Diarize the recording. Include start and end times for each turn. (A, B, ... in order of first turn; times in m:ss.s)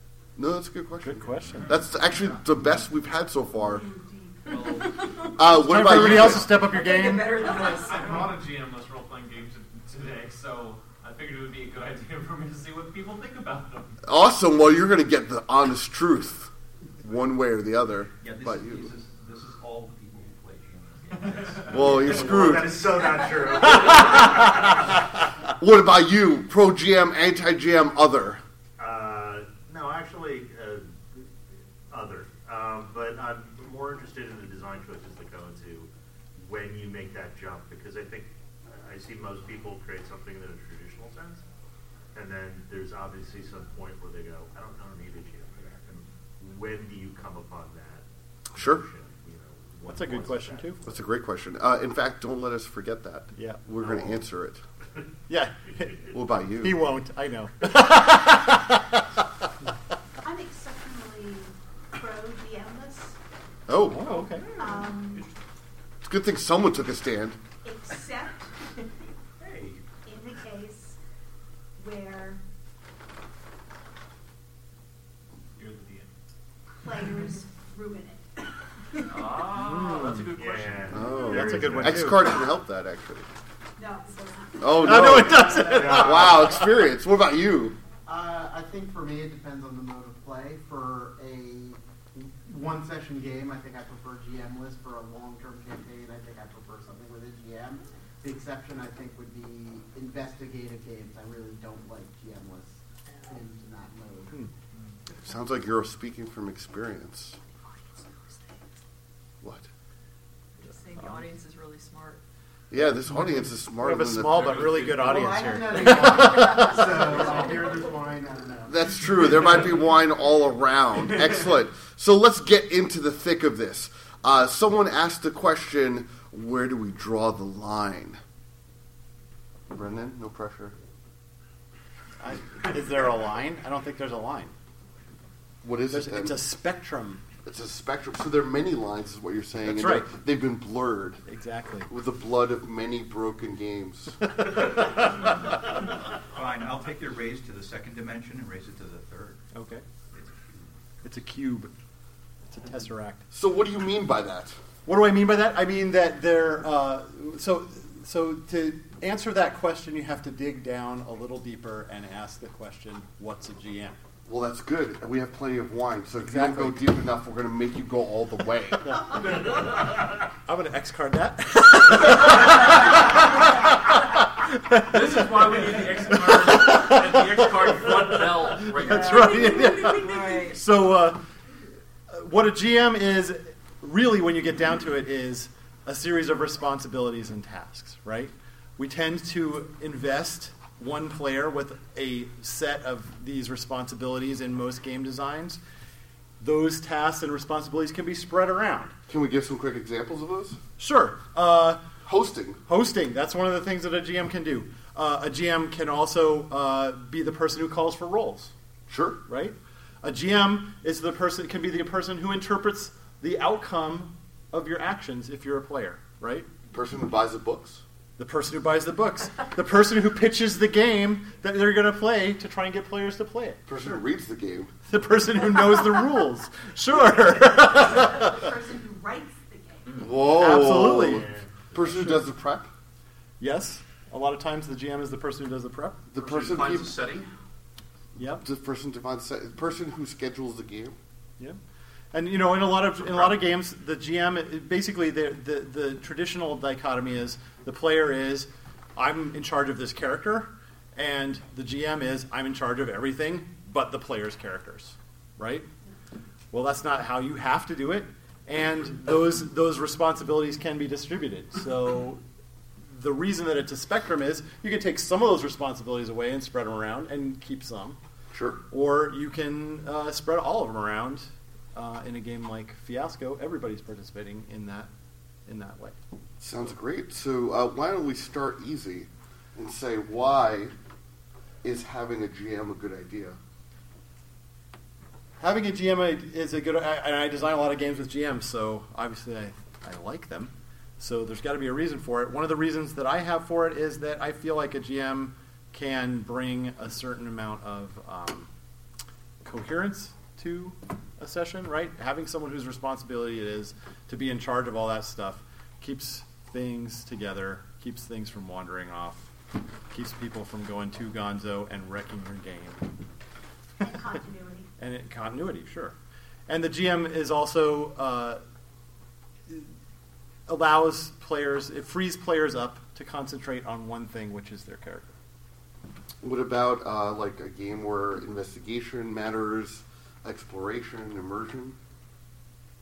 0:00.4-0:03.8 A
0:01.0-0:01.7 B
0:03.6-0:05.0 C
0:04.5-0:04.9 D
0:04.8-0:08.4 E
0:05.4-0:06.6 A
0:05.5-0:07.5 B
0:07.4-0:08.3 C
0:07.4-0:14.0 F
0:14.0-0:18.9 A
0:18.2-0:23.8 D
0:21.7-0:22.8 A
0:22.0-0:25.0 G
0:25.6-0:28.4 A
0:28.8-0:31.3 G
0:31.9-0:41.4 G
0:42.1-0:51.0 G
0:48.6-0:48.8 A
0:49.9-0:50.8 B
0:50.8-0:54.6 A
0:53.4-0:53.6 B
0:53.8-0:54.2 G
0:55.3-0:59.7 B
0:56.1-0:56.8 A
1:00.2-1:03.2 C
1:03.7-1:04.2 A
1:03.9-1:04.5 B
1:04.4-1:05.3 C
1:06.0-1:07.4 A
1:07.6-1:08.6 C
1:10.0-1:11.0 C
1:11.8-1:12.4 C
1:15.6-1:16.1 F
1:16.8-1:19.4 C
1:19.0-1:21.4 H
1:19.5-1:20.3 B
1:20.4-1:22.1 G
1:20.9-1:23.3 A
1:21.3-1:22.2 B
1:23.8-1:25.2 C
1:24.6-1:27.8 A
1:24.8-1:26.7 B
1:24.9-1:26.4 G
1:28.1-1:44.4 I
1:45.1-1:47.4 A
1:49.4-1:49.7 A
1:50.6-1:52.2 E
1:51.0-1:51.2 B
1:52.7-1:54.8 A
1:53.8-1:57.0 B
1:54.5-1:55.1 H
1:54.8-1:59.7 I
1:55.8-1:57.8 E
1:58.7-2:08.2 A
2:01.1-2:01.4 I
2:09.7-2:10.8 A
2:12.2-2:14.5 B
2:15.6-2:16.4 A
2:15.9-2:17.2 B
2:17.4-2:21.2 A
2:19.7-2:20.1 B
2:21.3-2:21.9 B
2:21.9-2:24.4 A
2:24.3-2:25.2 B
2:25.2-2:29.4 D
2:29.5-2:29.8 B
2:31.0-2:31.7 B
2:32.5-2:33.2 B
2:33.3-2:34.6 A
2:34.9-2:44.0 B
2:44.3-2:49.0 A
2:46.2-2:46.8 B
2:48.9-2:49.4 B
2:50.4-3:01.2 B
2:54.8-2:59.7 H
2:58.9-3:00.5 C
2:59.6-3:00.6 E
3:02.1-3:15.6 B
3:16.4-3:18.9 B
3:19.1-3:20.6 A
3:20.8-3:21.8 B
3:22.0-3:22.6 A
3:22.7-3:28.5 B
3:28.9-3:29.2 A
3:29.3-3:36.5 B
3:36.7-3:37.8 A
3:38.2-3:44.0 B
3:43.7-3:44.7 A
3:44.9-3:48.4 B
3:47.8-3:50.0 C
3:49.9-3:52.7 A
3:50.2-3:51.2 B
3:51.0-3:52.0 G
3:53.4-3:56.0 B
3:56.1-3:57.0 A
3:56.2-3:57.3 H
3:58.2-3:58.4 B
3:58.4-4:01.0 A
4:02.1-4:15.7 B
4:03.0-4:03.4 A
4:16.5-4:22.2 B
4:22.9-4:28.0 B
4:28.3-4:28.6 A
4:28.7-4:34.9 B
4:35.5-4:36.0 B
4:36.4-4:40.7 A
4:41.6-4:43.4 A
4:45.4-4:58.5 B
4:59.4-5:09.3 B
5:09.9-5:12.9 B
5:13.8-5:14.7 C
5:14.8-5:16.0 B
5:16.5-5:18.4 B
5:20.5-5:25.2 B
5:26.2-5:31.8 A